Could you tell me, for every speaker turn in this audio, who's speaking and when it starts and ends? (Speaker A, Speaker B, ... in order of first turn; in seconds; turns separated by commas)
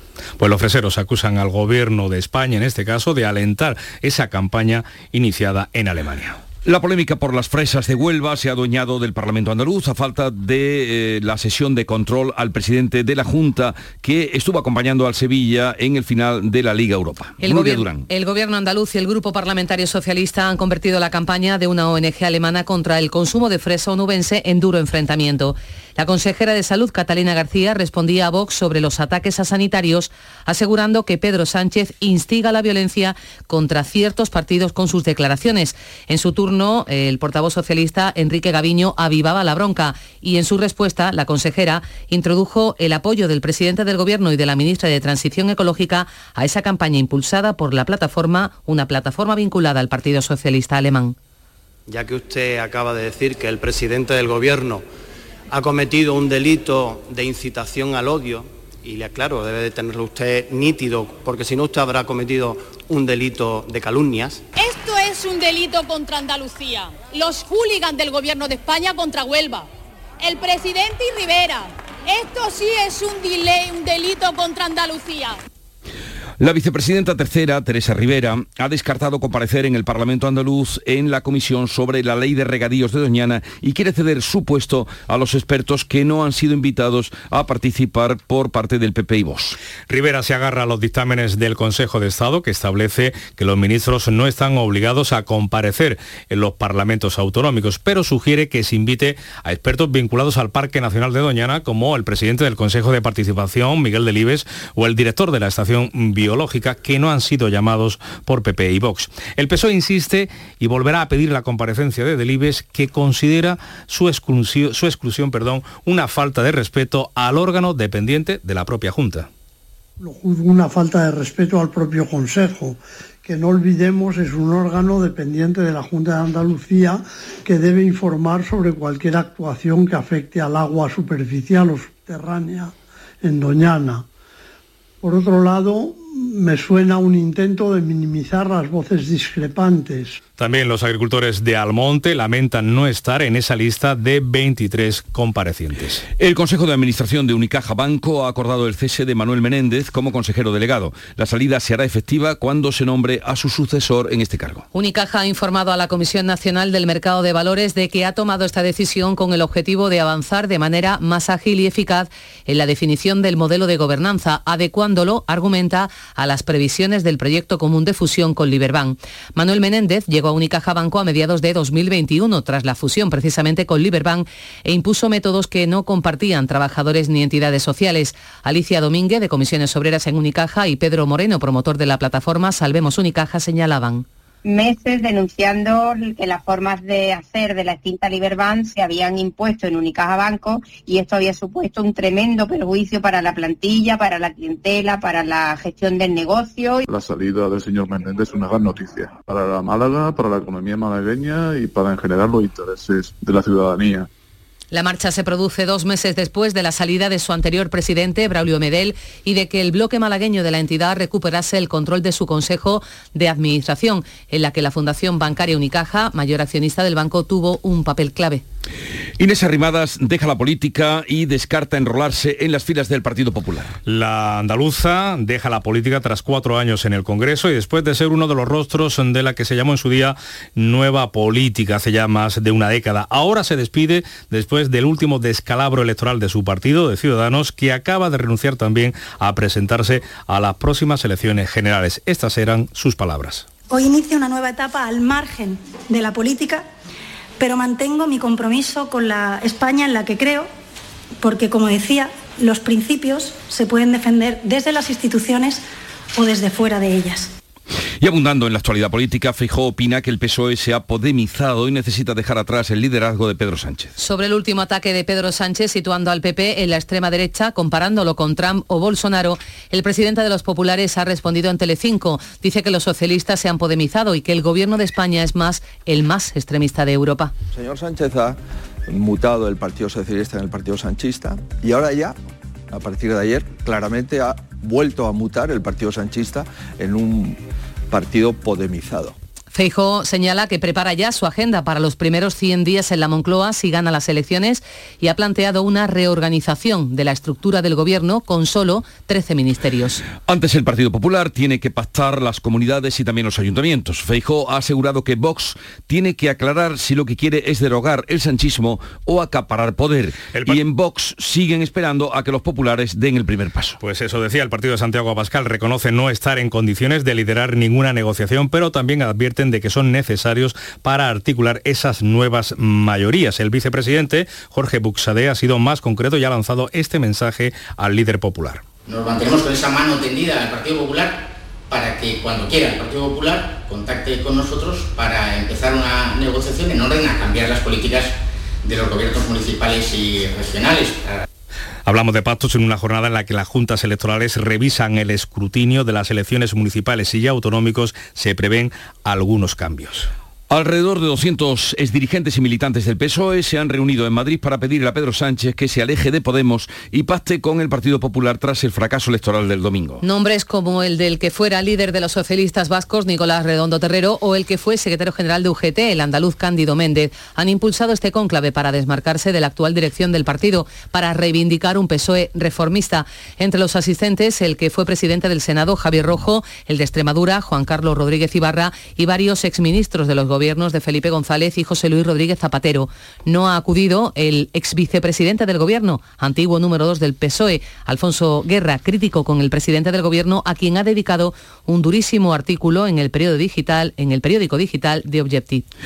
Speaker A: 0.4-6.4, Speaker B: 6.6-18.0, Speaker C: 17.4-51.1, Speaker D: 51.9-54.8, Speaker D: 55.5-64.4, Speaker E: 64.5-69.7, Speaker E: 70.2-75.4, Speaker B: 76.4-89.5, Speaker A: 89.9-119.3, Speaker F: 120.0-134.0, Speaker F: 135.0-140.2, Speaker A: 140.4-146.0, Speaker B: 146.2-154.6, Speaker C: 154.7-184.0, Speaker G: 184.4-196.8, Speaker H: 196.9-204.1, Speaker C: 204.7-218.4, Speaker B: 219.2-223.8, Speaker A: 223.8-243.5, Speaker I: 243.7-246.7, Speaker I: 247.4-250.5, Speaker I: 251.2-255.6, Speaker I: 256.1-257.3, Speaker B: 258.0-263.9, Speaker C: 264.0-277.3, Speaker J: 277.6-278.3, Speaker J: 278.9-282.1, Speaker J: 282.7-287.4, Speaker J: 287.9-289.1, Speaker C: 289.5-300.0, Speaker B: 300.2-313.8, Speaker A: 310.3-310.6, Speaker A: 313.8-328.6, Speaker K: 328.8-331.2, Speaker K: 331.7-341.2, Speaker A: 341.9-350.1, Speaker B: 350.5-360.0, Speaker C: 360.0-395.6